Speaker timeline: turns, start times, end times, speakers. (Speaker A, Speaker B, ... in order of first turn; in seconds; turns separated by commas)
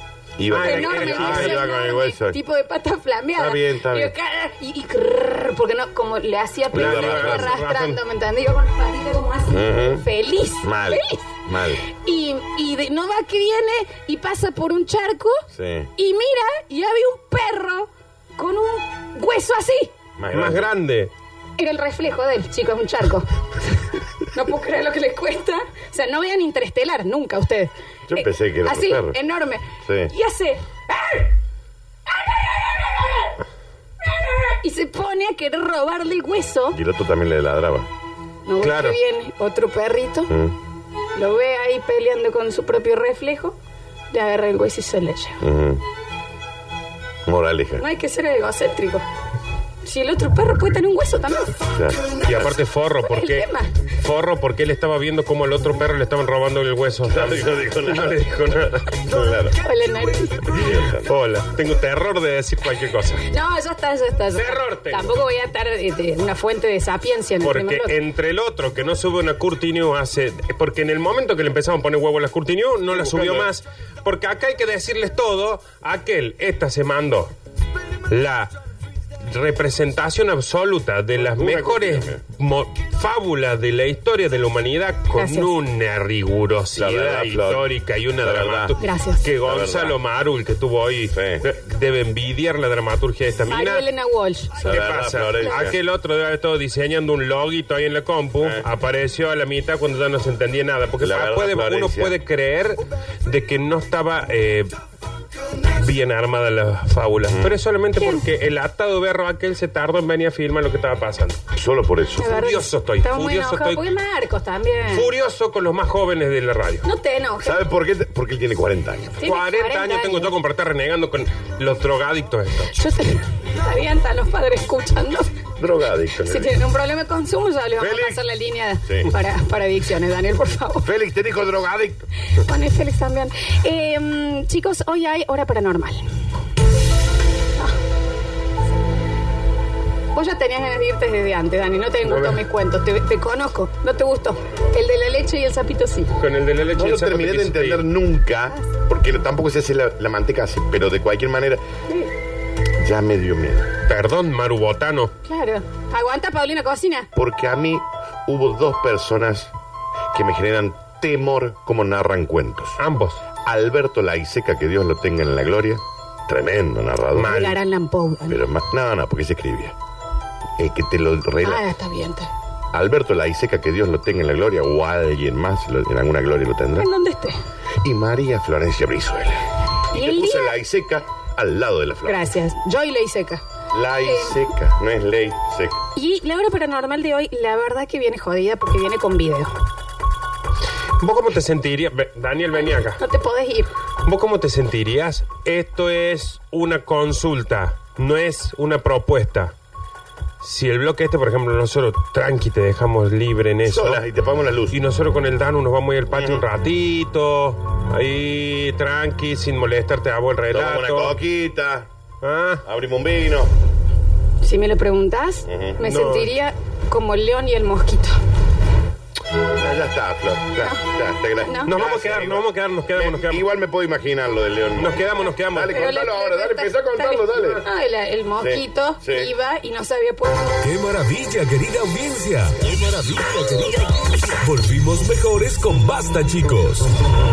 Speaker A: 0.4-2.4, Speaker B: 0.5-1.7, Speaker C: 0.5-11.3, Speaker A: 3.4-4.1, Speaker A: 6.7-7.5, Speaker B: 6.7-8.0, Speaker A: 9.5-10.0, Speaker A: 10.6-11.8, Speaker C: 11.9-15.4, Speaker A: 15.5-15.9, Speaker C: 16.0-19.9, Speaker A: 20.2-20.7, Speaker B: 20.3-21.1, Speaker C: 21.6-31.3, Speaker A: 28.1-29.2, Speaker A: 29.9-30.1, Speaker C: 32.1-33.4, Speaker C: 34.0-36.8, Speaker A: 36.7-37.9, Speaker C: 38.5-40.3, Speaker B: 38.6-39.0, Speaker A: 40.3-40.5, Speaker C: 41.1-43.6, Speaker C: 44.1-45.4, Speaker A: 45.4-45.8, Speaker A: 47.3-47.8, Speaker C: 47.8-49.0, Speaker C: 49.8-51.6, Speaker A: 51.7-52.5, Speaker B: 52.2-59.0, Speaker C: 53.1-53.7, Speaker A: 57.0-59.6, Speaker C: 59.6-60.5, Speaker A: 60.5-61.1, Speaker B: 60.7-63.2, Speaker C: 63.3-68.0, Speaker B: 64.3-65.2, Speaker B: 67.4-77.3, Speaker A: 72.9-73.5, Speaker B: 78.1-78.5, Speaker B: 79.3-93.9, Speaker A: 81.2-82.2, Speaker C: 85.2-85.5, Speaker A: 86.8-88.7, Speaker C: 88.8-89.2, Speaker A: 89.4-90.0, Speaker A: 91.1-91.4, Speaker C: 93.5-94.6, Speaker B: 94.6-104.7, Speaker A: 94.6-95.8, Speaker A: 98.4-98.7, Speaker A: 101.0-102.2, Speaker B: 105.6-111.4, Speaker A: 107.3-107.6, Speaker C: 108.0-108.2, Speaker A: 111.5-112.4, Speaker C: 112.2-115.1, Speaker B: 112.2-113.9, Speaker B: 114.9-116.9, Speaker C: 116.8-117.6, Speaker A: 117.4-119.3, Speaker C: 119.2-120.3, Speaker B: 119.2-122.8, Speaker C: 122.7-125.4, Speaker A: 125.6-126.6, Speaker C: 126.2-130.9, Speaker A: 127.8-128.2, Speaker A: 128.9-129.1, Speaker A: 130.8-132.0, Speaker C: 132.3-136.1, Speaker C: 140.1-146.1, Speaker B: 142.0-142.4, Speaker B: 146.1-147.8, Speaker A: 146.8-151.6, Speaker A: 152.8-153.7, Speaker B: 153.9-155.1, Speaker C: 155.2-157.1, Speaker A: 157.2-159.5, Speaker A: 160.1-162.8, Speaker B: 162.8-163.2, Speaker A: 163.4-167.4, Speaker B: 167.2-167.6, Speaker C: 167.2-168.4, Speaker A: 168.3-169.8, Speaker A: 170.6-171.7, Speaker C: 171.4-172.3, Speaker A: 172.7-176.9, Speaker C: 176.8-177.4, Speaker A: 177.8-182.2, Speaker C: 179.9-180.6, Speaker C: 182.1-183.4, Speaker A: 183.7-185.8, Speaker C: 184.0-184.5, Speaker C: 186.0-189.5, Speaker B: 191.0-193.0, Speaker C: 193.0-193.7, Speaker B: 194.0-199.5, Speaker B: 200.4-204.0, Speaker A: 203.7-204.8, Speaker B: 204.7-211.2, Speaker A: 206.1-206.4, Speaker A: 210.5-211.9, Speaker B: 212.2-212.6, Speaker A: 212.6-213.5, Speaker C: 214.4-218.2, Speaker A: 215.5-215.8, Speaker B: 215.8-216.3, Speaker A: 219.5-227.7, Speaker C: 221.4-221.7, Speaker B: 221.7-223.5, Speaker B: 224.8-225.9, Speaker C: 225.7-230.6, Speaker A: 228.4-229.3, Speaker D: 230.6-236.9